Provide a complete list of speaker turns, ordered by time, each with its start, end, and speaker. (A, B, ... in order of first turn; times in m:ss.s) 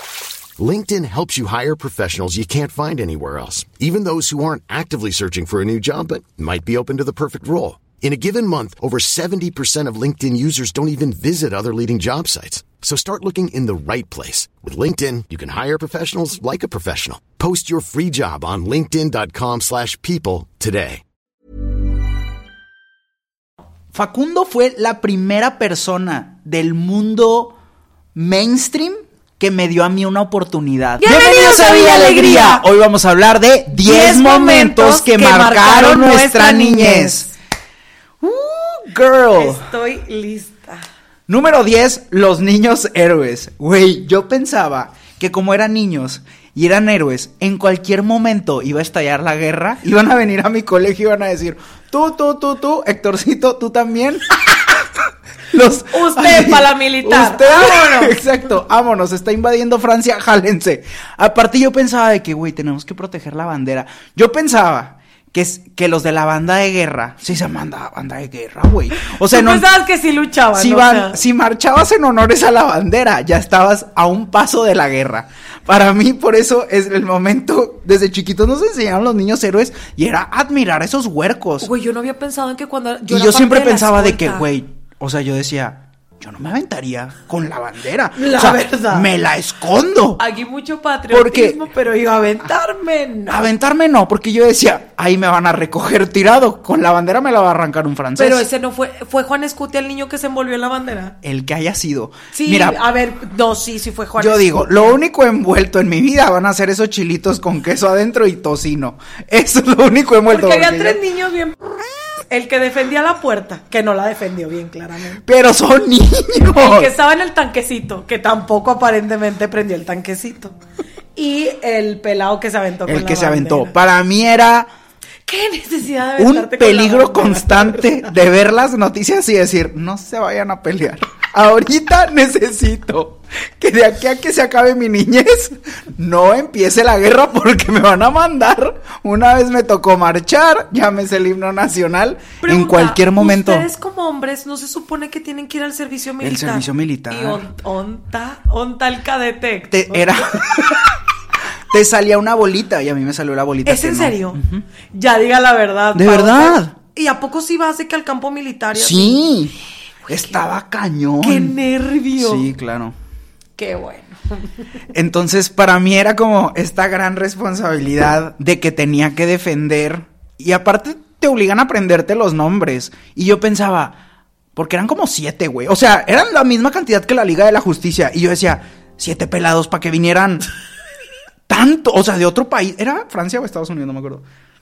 0:00.6-0:21.0 A
0:23.9-0:27.6 B
0:28.1-0:37.3 B
0:31.0-0:32.6 C
0:33.8-0:37.3 C
0:38.2-0:39.7 B
0:39.3-0:40.8 C
0:41.3-1:09.7 B
0:55.9-0:58.2 C
1:09.0-1:11.2 C
1:10.5-1:21.7 B
1:21.6-1:24.5 C
1:23.1-1:30.2 B
1:28.2-1:29.1 C
1:30.2-1:33.5 C
1:31.1-1:31.6 B
1:33.3-1:38.4 B
1:38.2-1:41.2 C
1:41.2-1:42.8 B
1:42.3-1:45.0 C
1:44.2-1:51.0 B
1:50.3-1:51.6 C
1:52.3-1:55.2 C
1:55.2-1:56.9 B
1:56.4-2:00.5 C
2:01.2-2:03.7 C
2:02.8-2:04.7 B
2:05.3-2:08.1 C
2:06.2-2:23.7 B
2:22.4-2:30.2 C
2:26.2-2:27.4 B
2:29.7-2:30.9 B
2:31.7-2:34.6 B
2:33.6-2:34.4 C
2:34.9-2:39.3 C
2:35.9-2:36.7 B
2:38.7-2:39.5 B
2:40.1-2:40.4 C
2:40.1-2:41.6 B
2:41.2-2:42.5 C
2:42.2-2:42.9 B
2:43.6-2:44.5 C
2:44.9-2:54.0 B
2:54.6-3:00.5 B
3:01.5-3:04.2 B